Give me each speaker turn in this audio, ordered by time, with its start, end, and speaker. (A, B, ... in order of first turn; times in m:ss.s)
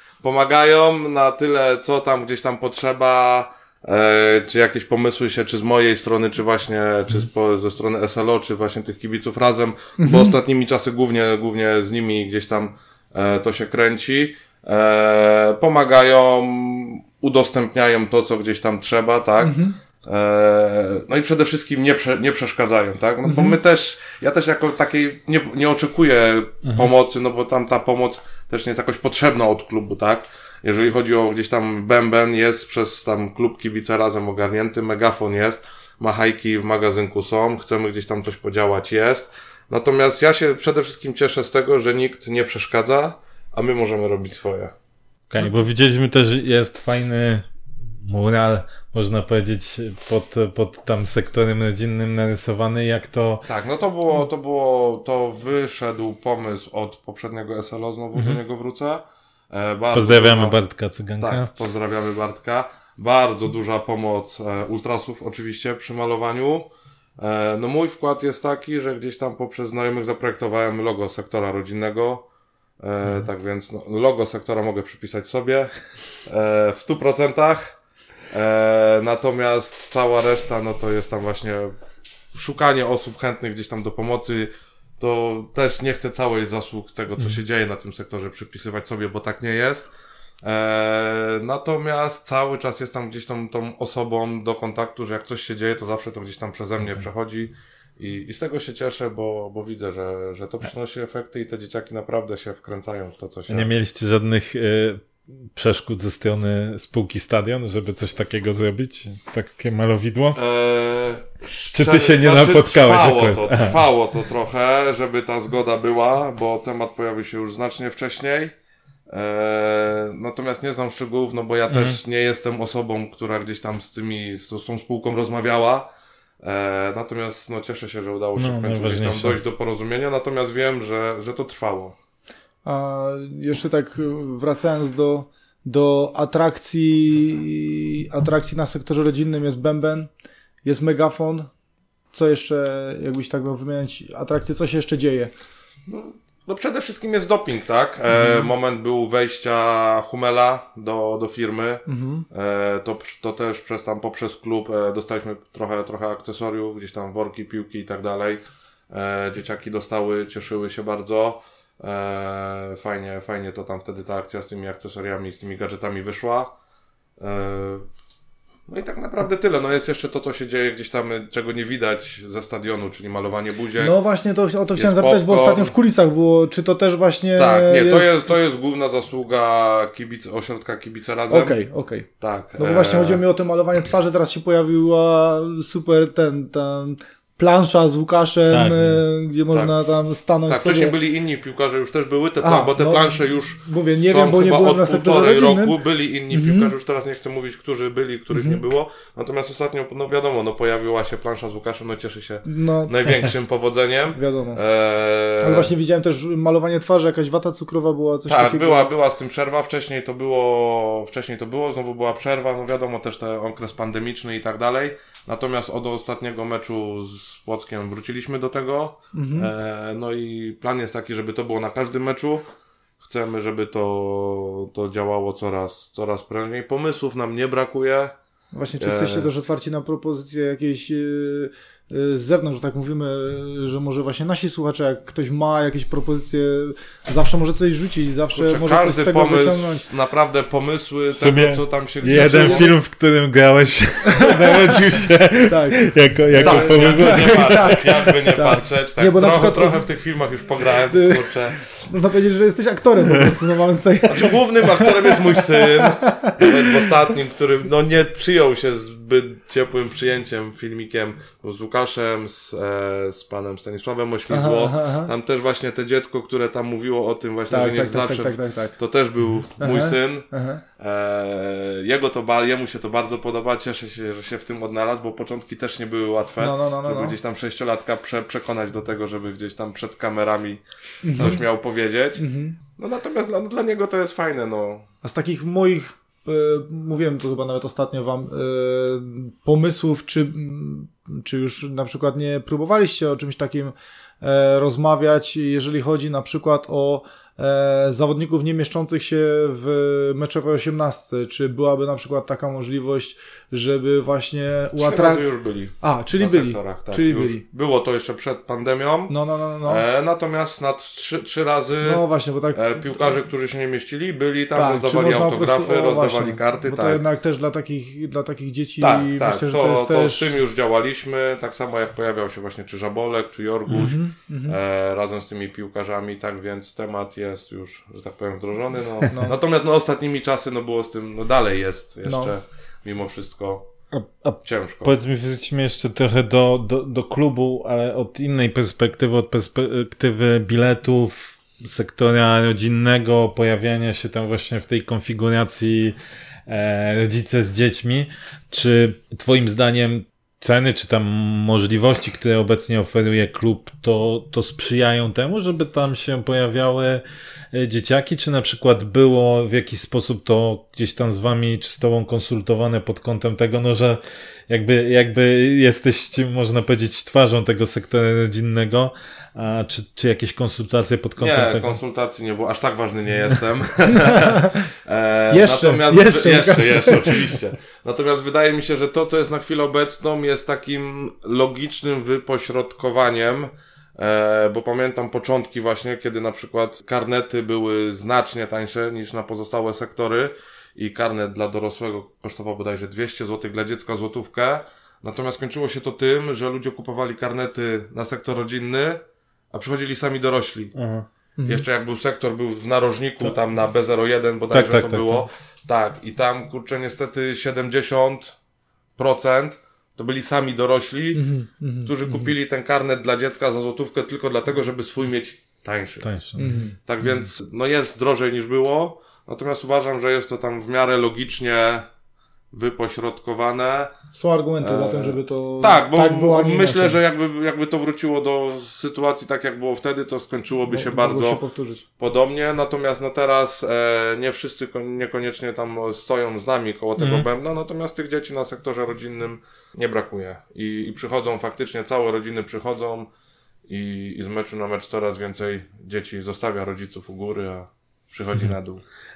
0:00.2-0:44.7 A
0:10.0-0:10.3 B
0:19.4-0:19.7 B
0:23.2-0:23.6 B
0:45.3-0:47.4 C
0:48.0-0:53.4 C
0:53.5-1:00.6 A
0:59.9-1:01.5 C
1:01.2-1:06.7 A
1:07.2-1:12.2 A
1:12.8-1:15.7 A
1:16.3-1:17.7 A
1:18.3-1:21.7 A
1:22.3-1:29.9 A
1:30.4-1:43.7 A
1:43.5-1:50.4 C
1:50.4-1:58.5 A
1:51.7-1:53.8 C
1:59.1-2:05.9 A
2:01.7-2:02.0 C
2:06.4-2:12.0 A
2:08.4-2:09.4 C
2:12.6-2:20.1 B
2:20.6-2:21.5 B
2:22.1-2:25.3 B
2:25.9-2:46.5 A
2:28.1-2:28.5 B
2:31.8-2:32.2 B
2:47.2-2:47.8 A
2:48.7-2:54.0 A
2:53.8-2:58.3 B
2:54.8-2:55.7 A
2:57.4-3:01.6 A
3:01.3-3:11.0 B
3:02.2-3:03.2 A
3:08.5-3:09.0 C
3:10.5-3:25.7 A
3:12.4-3:15.8 B
3:16.3-3:16.7 B
3:18.3-3:18.6 B
3:22.4-3:23.1 B
3:24.1-3:24.6 B
3:25.4-3:28.9 B
3:28.3-3:42.4 A
3:39.1-3:39.5 B
3:43.0-3:48.1 A
3:48.5-3:59.8 B
3:48.8-3:49.3 A
3:58.3-4:02.7 A
4:01.1-4:07.9 C
4:02.0-4:02.7 B
4:04.1-4:04.7 B
4:05.4-4:09.8 B
4:06.4-4:11.6 A
4:10.9-4:16.9 B
4:14.1-4:40.6 A
4:24.3-4:25.1 B
4:27.5-4:28.8 B
4:29.6-4:30.6 B
4:36.4-4:37.1 B
4:41.0-4:41.4 B
4:41.1-4:42.2 A
4:42.2-4:42.6 B
4:42.8-4:44.9 A
4:45.0-5:05.2 B
5:04.7-5:17.0 A
5:05.8-5:07.4 B
5:09.1-5:09.8 B
5:11.8-5:13.1 B
5:14.5-5:20.3 B
5:18.8-5:33.7 A
5:23.7-5:24.6 B
5:29.1-5:29.4 B
5:32.1-5:32.3 B
5:33.9-5:46.0 C
5:34.4-5:34.9 A
5:46.5-6:11.8 C
6:11.2-6:39.0 A
6:13.9-6:14.6 B
6:15.3-6:17.3 B
6:39.5-6:40.7 A
6:40.7-6:41.1 C
6:41.4-6:41.6 B
6:41.4-6:48.3 A
6:44.5-6:45.3 C
6:49.0-6:51.3 A
6:51.1-6:51.9 B
6:51.8-6:56.1 A
6:56.0-6:56.6 C
6:56.4-6:56.7 B
6:56.8-7:01.9 A
7:02.5-7:03.9 A
7:04.1-7:07.0 B
7:04.6-7:11.4 A
7:10.7-7:11.8 B
7:12.0-7:23.1 A
7:17.0-7:17.3 C
7:23.7-7:28.8 A